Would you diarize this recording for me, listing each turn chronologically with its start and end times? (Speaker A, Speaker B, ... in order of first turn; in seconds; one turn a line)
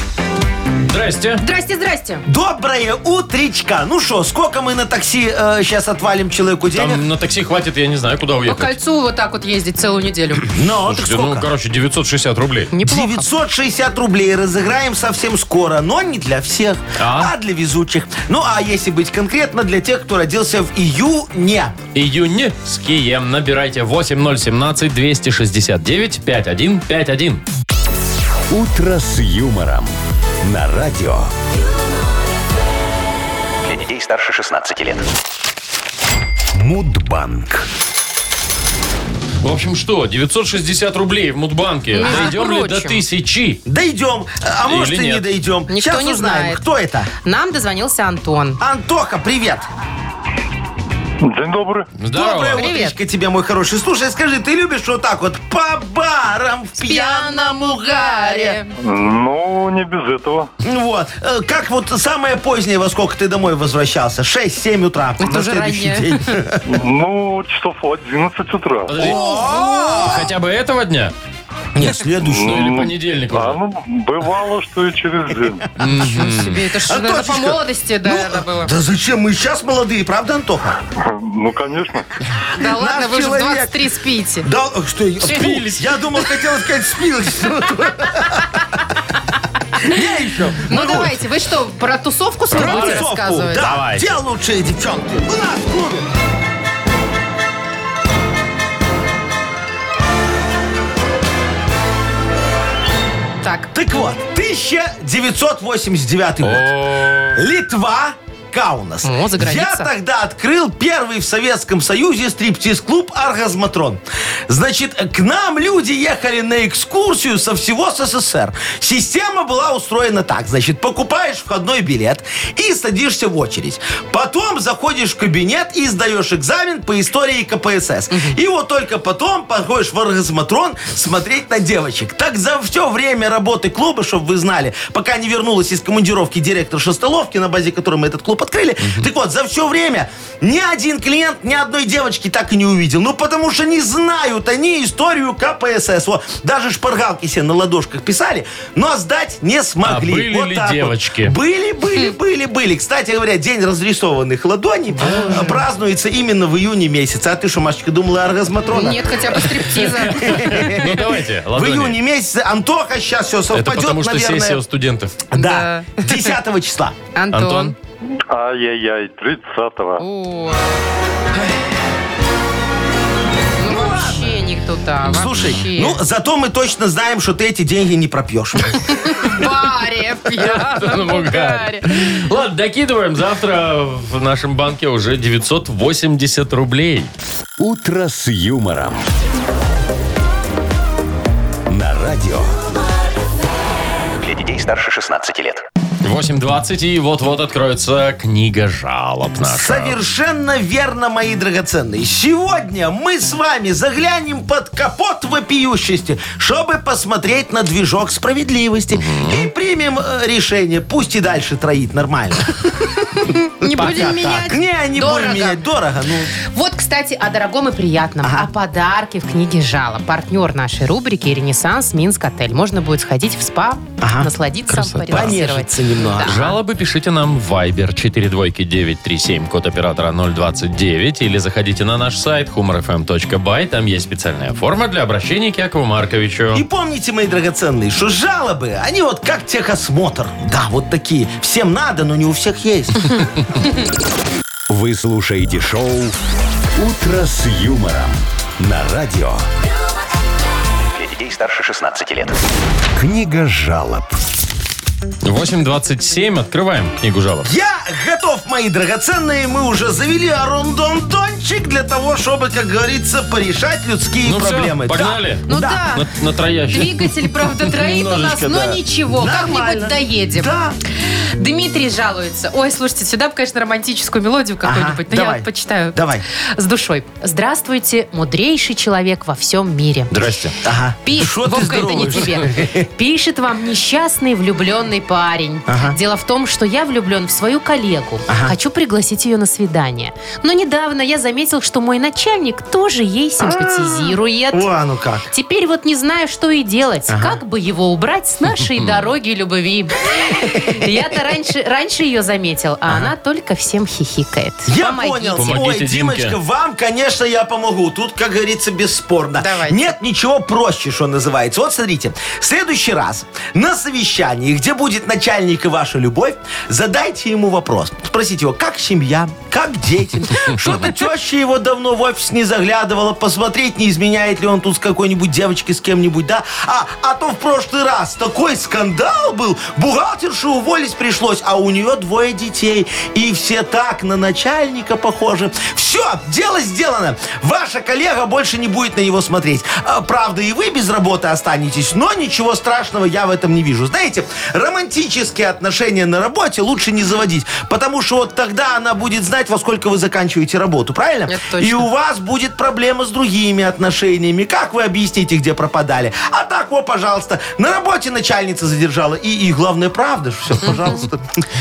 Speaker A: 0.9-1.4
Speaker B: 1.4-2.2
Speaker C: 2.3-7.0
Speaker A: 6.7-8.7
Speaker B: 8.5-10.5
Speaker C: 10.5-11.5
Speaker A: 10.8-12.7
Speaker B: 12.7-13.3
Speaker C: 12.8-21.8
Speaker A: 17.0-17.3
Speaker A: 21.9-27.4
Speaker D: 28.5-31.3
Speaker E: 33.6-35.0
Speaker D: 36.5-37.7
Speaker A: 39.4-43.6
Speaker B: 41.9-43.0
Speaker C: 43.7-47.1
Speaker A: 44.6-45.3
Speaker B: 45.7-46.6
Speaker B: 47.2-48.6
Speaker C: 48.6-49.7
Speaker F: 51.2-52.0
Speaker A: 52.0-52.7
Speaker C: 52.1-58.6
Speaker B: 52.6-53.0
Speaker B: 56.8-58.7
Speaker F: 58.8-60.5
Speaker C: 60.6-66.6
Speaker B: 65.2-66.3
Speaker F: 66.7-69.0
Speaker A: 68.9-69.2
Speaker C: 69.0-70.3
Speaker B: 69.0-70.1
Speaker A: 70.0-71.1
Speaker C: 71.8-72.9
Speaker F: 72.2-75.7
Speaker A: 72.4-73.6
Speaker A: 75.8-76.6
Speaker B: 75.9-78.7
Speaker C: 75.9-80.8
Speaker F: 81.0-82.1
Speaker C: 82.5-83.8
Speaker B: 82.5-84.5
Speaker C: 84.4-88.6
Speaker B: 85.2-85.8
Speaker A: 85.3-85.7
Speaker C: 89.8-91.1
Speaker B: 90.7-93.7
Speaker A: 92.5-93.1
Speaker C: 92.5-96.1
Speaker A: 93.6-94.1
Speaker B: 103.4-103.7
Speaker C: 103.7-106.8
Speaker A: 106.4-107.4
Speaker C: 107.3-164.6
Speaker B: 109.0-109.9
Speaker B: 128.1-128.4
Speaker A: 138.8-139.1
Speaker A: 149.8-151.4
Speaker B: 155.0-155.6
Speaker B: 158.7-160.9
Speaker A: 159.8-162.0
Speaker A: 163.5-165.2
Speaker C: 165.3-167.0
Speaker B: 165.3-166.2
Speaker B: 167.2-167.8
Speaker A: 167.3-167.8
Speaker F: 168.3-170.0
Speaker B: 170.0-170.7
Speaker B: 173.6-176.0
Speaker C: 173.7-174.3
Speaker C: 175.0-179.0
Speaker B: 178.8-182.1
Speaker A: 180.4-187.1
Speaker D: 187.6-189.1
Speaker D: 191.7-192.6
Speaker E: 194.2-195.6
Speaker A: 196.0-200.0
Speaker C: 199.4-212.9
Speaker A: 208.9-209.5
Speaker B: 213.1-215.7
Speaker C: 213.6-216.3
Speaker B: 216.4-226.6
Speaker C: 224.0-224.3
Speaker A: 224.7-225.4
Speaker C: 225.1-226.4
Speaker A: 226.2-236.6
Speaker C: 236.5-243.3
Speaker D: 244.7-246.2
Speaker D: 246.8-249.4
Speaker E: 250.9-252.4
Speaker D: 253.0-254.2
Speaker A: 255.2-257.5
Speaker C: 257.4-265.9
Speaker A: 264.2-267.1
Speaker B: 265.5-266.1
Speaker B: 266.7-280.4
Speaker A: 267.8-268.8
Speaker C: 269.1-270.8
Speaker C: 274.6-276.2
Speaker A: 280.1-280.6
Speaker C: 280.6-282.9
Speaker B: 281.0-294.7
Speaker C: 285.7-286.0
Speaker C: 288.3-288.5
Speaker C: 293.4-295.3
Speaker B: 295.3-305.7
Speaker C: 297.1-297.4
Speaker C: 300.3-300.8
Speaker C: 302.9-303.1
Speaker C: 304.7-361.4
Speaker A: 305.4-306.4
Speaker B: 309.4-309.9
Speaker B: 351.3-351.9